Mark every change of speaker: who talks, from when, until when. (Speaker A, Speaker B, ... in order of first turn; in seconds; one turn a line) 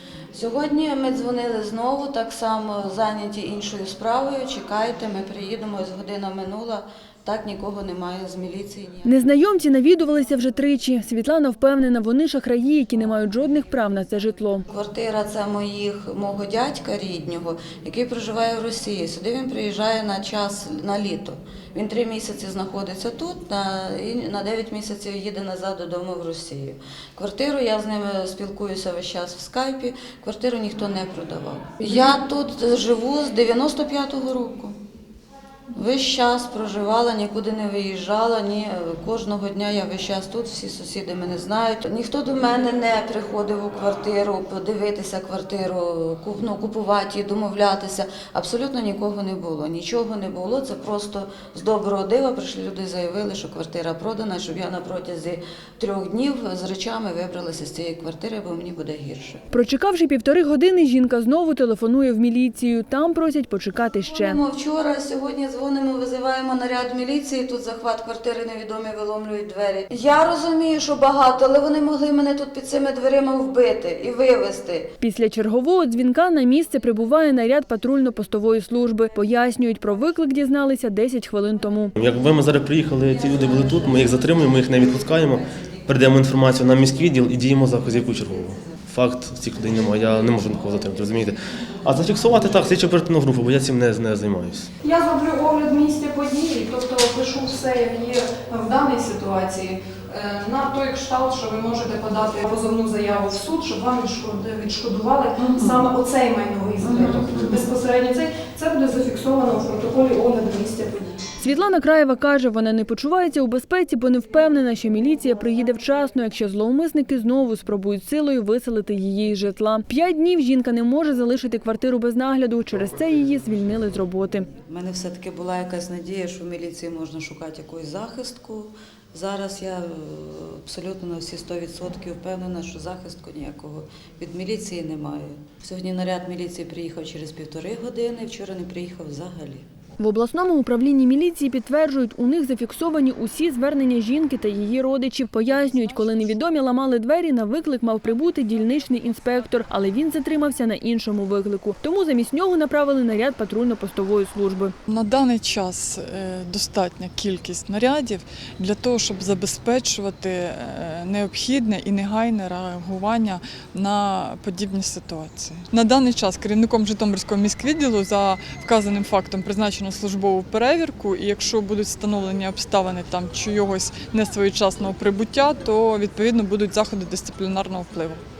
Speaker A: 0.3-9.1
Speaker B: 9.1-14.7
Speaker A: 14.7-34.8
Speaker A: 35.7-59.4
Speaker B: 59.5-64.4
Speaker A: 64.1-74.9
Speaker B: 75.0-81.9
Speaker C: 82.0-94.7
Speaker A: 83.5-85.4
Speaker D: 94.8-111.2
Speaker A: 105.4-105.8
Speaker A: 106.8-107.2
Speaker B: 111.4-124.5
Speaker A: 124.7-139.7
Speaker B: 140.0-154.7
Speaker E: 154.9-178.2